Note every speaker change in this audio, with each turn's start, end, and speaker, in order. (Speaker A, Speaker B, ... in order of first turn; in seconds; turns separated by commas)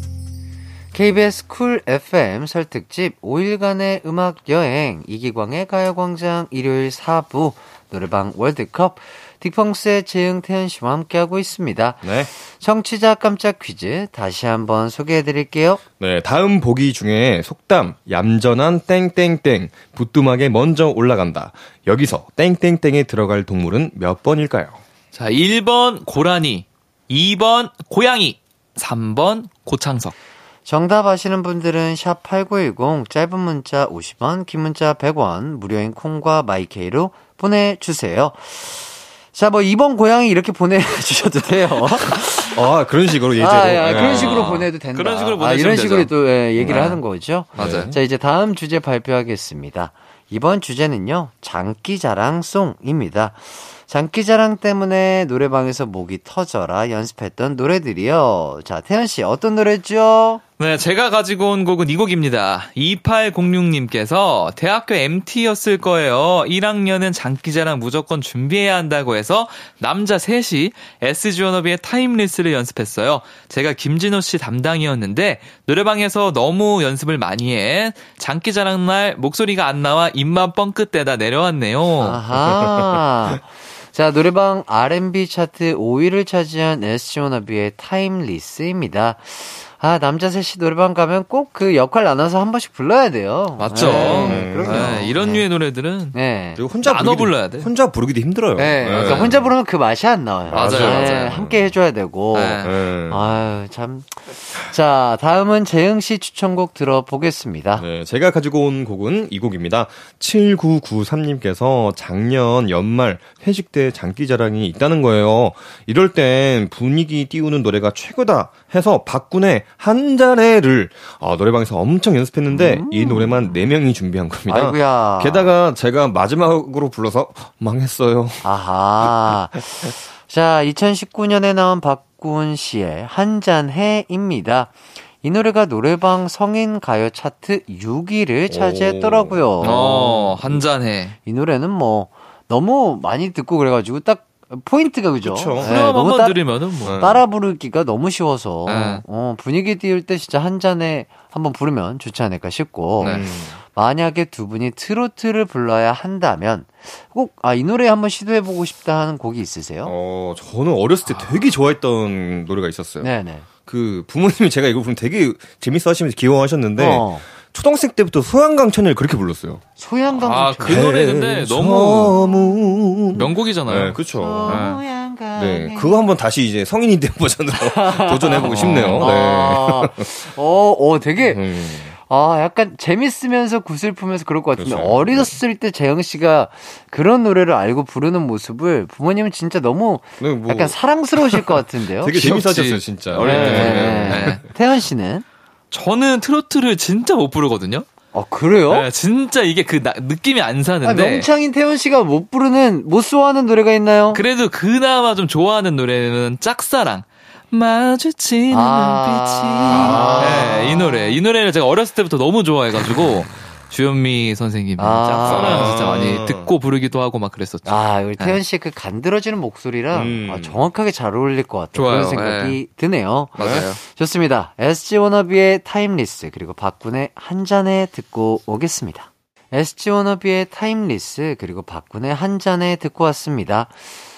Speaker A: 0.9-15.8, Speaker B: 12.0-12.3, Speaker B: 16.0-24.8, Speaker C: 25.1-30.1, Speaker A: 30.6-42.6, Speaker B: 42.5-44.6, Speaker A: 43.4-60.4, Speaker C: 43.8-46.1, Speaker B: 46.6-47.0, Speaker B: 47.5-48.0, Speaker C: 47.6-47.9, Speaker C: 60.6-82.2, Speaker A: 82.0-95.5, Speaker B: 82.4-82.8, Speaker C: 93.6-96.2, Speaker B: 93.8-95.1, Speaker A: 96.1-96.6, Speaker B: 96.5-99.5, Speaker C: 96.8-97.7, Speaker A: 98.5-107.8, Speaker C: 98.8-99.3, Speaker B: 100.5-101.7, Speaker C: 100.5-101.4, Speaker C: 102.3-102.7, Speaker B: 102.6-103.2, Speaker B: 107.8-128.4, Speaker A: 122.5-123.6, Speaker A: 124.5-125.5, Speaker A: 128.4-140.6, Speaker B: 138.5-140.1, Speaker C: 139.6-141.2, Speaker A: 141.2-159.9, Speaker B: 145.2-145.7, Speaker C: 145.6-147.0, Speaker B: 146.8-147.2, Speaker C: 148.7-149.0, Speaker C: 153.0-153.2, Speaker B: 153.0-153.6, Speaker B: 159.8-163.1, Speaker A: 163.0-163.5, Speaker B: 163.7-169.6, Speaker A: 166.8-167.2, Speaker A: 169.8-170.9, Speaker C: 170.2-172.2, Speaker B: 170.6-174.8, Speaker A: 172.1-172.5, Speaker C: 173.2-174.8, Speaker A: 174.1-176.0, Speaker B: 175.3-180.1, Speaker A: 177.5-192.3, Speaker C: 178.4-179.1, Speaker B: 181.3-181.9, Speaker B: 184.5-185.4, Speaker B: 190.2-194.4, Speaker C: 192.2-194.4, Speaker A: 193.2-195.2, Speaker C: 195.7-197.8, Speaker A: 198.1-198.9, Speaker C: 198.7-201.3, Speaker A: 200.8-204.2, Speaker C: 204.1-218.4, Speaker A: 208.5-211.2, Speaker B: 209.7-210.8, Speaker A: 214.8-215.8, Speaker B: 215.2-216.5, Speaker A: 217.6-233.9, Speaker B: 219.9-220.6, Speaker C: 221.7-222.6, Speaker C: 223.3-223.8, Speaker B: 223.4-223.7